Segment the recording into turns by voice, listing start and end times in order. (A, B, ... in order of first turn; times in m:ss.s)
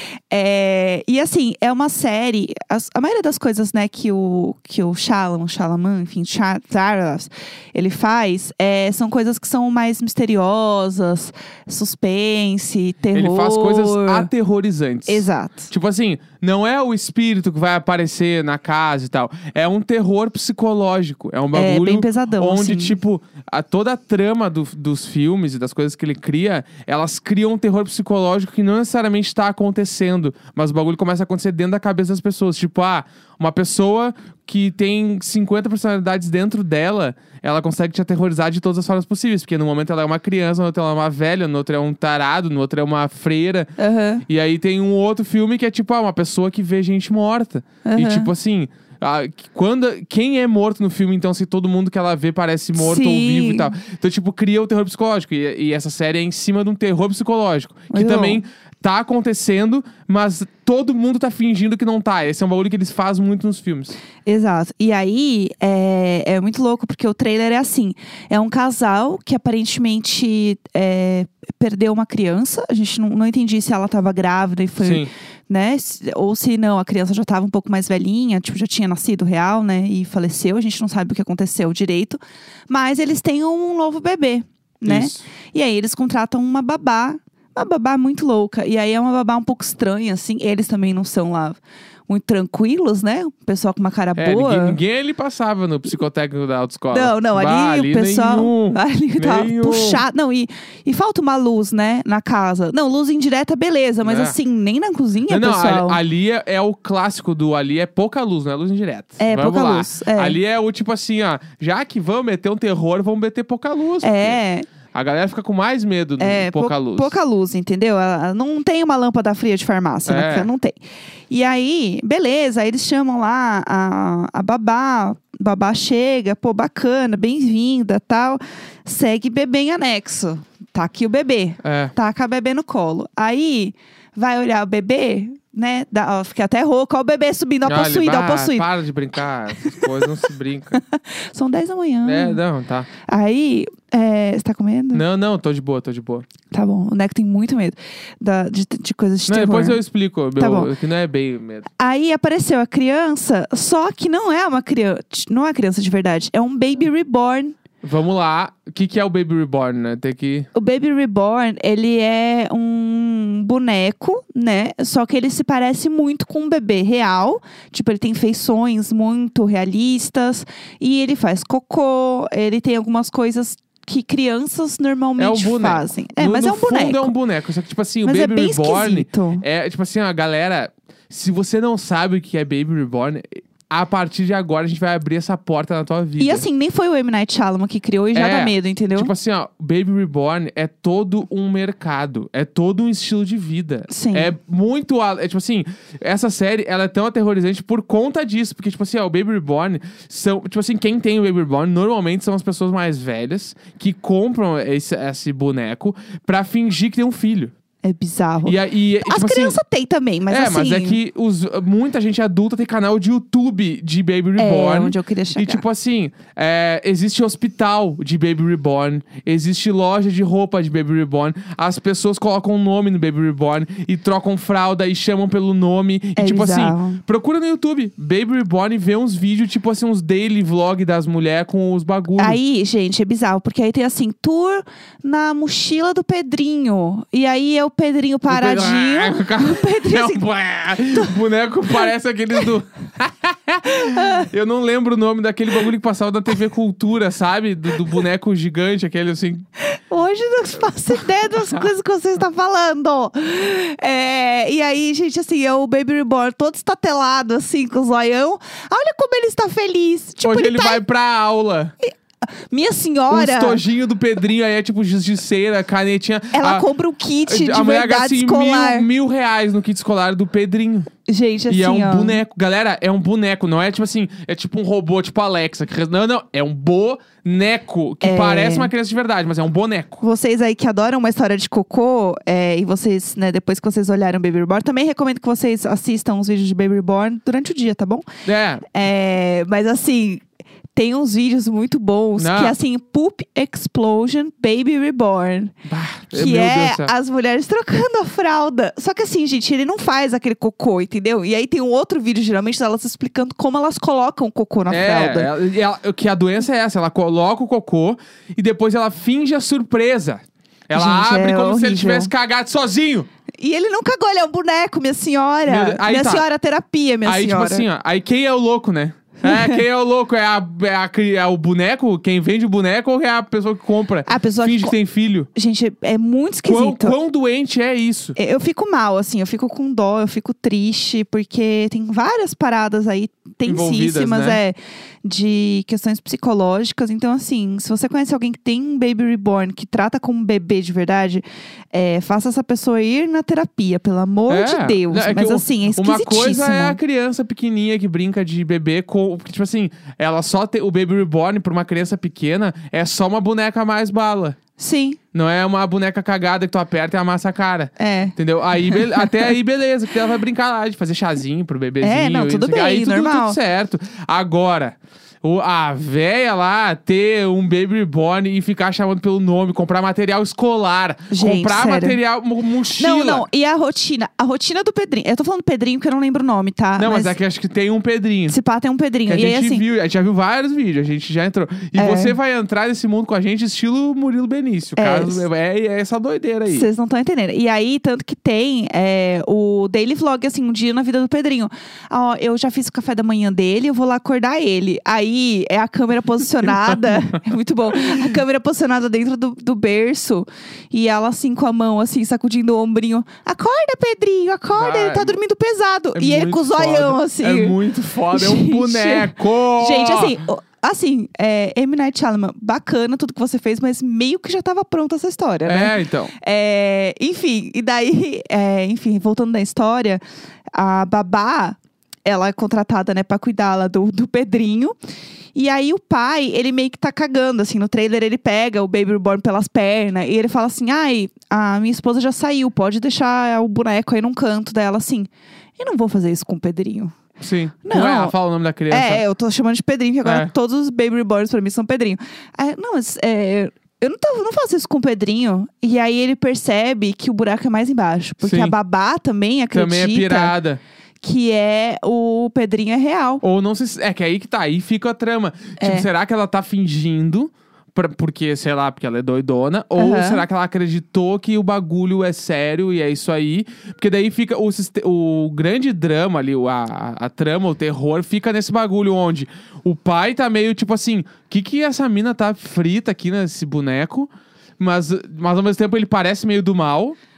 0:00.3-0:14.3 A
0:13.1-0:43.7 B
0:15.1-0:15.7 A
0:21.5-0:23.0 A
0:43.8-0:44.2 A
0:44.3-1:04.0 B
0:47.8-0:48.3 A
0:52.8-0:53.7 A
0:57.9-0:58.4 A
1:04.3-1:34.8 A
1:14.8-1:15.1 B
1:24.9-1:25.3 B
1:34.2-1:40.0 B
1:36.9-1:46.0 A
1:44.0-1:44.4 B
1:45.3-1:54.4 B
1:49.2-1:50.4 A
1:54.0-1:54.7 A
1:54.9-1:57.2 B
1:56.2-2:00.8 A
2:00.1-2:00.5 B
2:01.3-2:18.7 A
2:11.6-2:11.9 B
2:17.6-2:20.8 B
2:19.6-2:20.0 A
2:20.8-2:22.4 A
2:22.0-2:22.9 B
2:23.1-2:25.0 A
2:24.9-2:26.3 B
2:26.5-2:29.8 A
2:29.3-2:31.7 B
2:30.4-2:30.7 A
2:31.8-2:37.6 A
2:37.8-2:40.5 B
2:40.6-2:57.1 A
2:55.2-3:06.4 B
2:58.0-2:59.4 A
3:06.2-3:09.1 A
3:08.2-3:27.5 B
3:13.9-3:14.3 A
3:27.8-3:31.0 A
3:28.4-3:29.6 B
3:30.3-3:52.4 B
3:34.4-3:35.6 A
3:46.2-3:47.0 A
3:52.2-4:00.2 A
3:58.3-4:09.4 B
4:03.7-4:04.3 A
4:09.6-4:20.8 A
4:20.2-4:21.7 B
4:21.8-4:23.6 A
4:23.1-4:26.7 B
4:26.3-4:28.9 A
4:27.3-4:30.9 B
4:31.1-4:32.2 A
4:31.5-4:40.0 B
4:38.0-4:38.7 A
4:40.0-4:48.1 A
4:48.2-4:48.6 B
4:48.7-4:50.2 A
4:50.8-4:55.5 A
4:52.2-4:52.6 B
4:55.7-4:56.9 B
4:56.1-5:05.3 A
5:04.7-5:13.1 B
5:10.7-5:12.1 A
5:13.4-5:17.7 A
5:15.5-5:16.2 B
5:17.0-5:25.3 B
5:19.2-5:19.6 A
5:24.1-5:24.8 A
5:25.3-5:27.0 A
5:26.4-5:28.2 B
5:28.2-5:46.8 A
5:33.4-5:34.4 B
5:44.3-5:54.4 B
5:54.6-5:55.0 A
5:55.1-6:13.3 B
5:57.8-5:59.3 A
6:01.8-6:03.4 A
6:11.1-6:12.0 A
6:12.8-6:17.2 A
6:16.8-6:18.4 B
6:18.3-6:19.6 A
6:19.1-6:26.7 B
6:21.8-6:22.2 A
6:24.8-6:25.3 A
6:26.5-6:47.6 A
6:44.6-6:45.2 B
6:45.9-6:50.2 B
6:48.1-7:00.0 A
6:55.4-6:56.1 B
7:00.6-7:04.8 A
7:05.4-7:17.0 A
7:17.2-7:19.0 B
7:17.6-7:18.2 A
7:18.7-7:30.4 A
7:20.0-7:20.3 B
7:28.2-7:28.6 B
7:29.5-7:30.6 B
7:31.0-7:33.2 A
7:33.2-7:57.0 B
7:35.6-7:35.9 A
7:39.8-7:40.3 A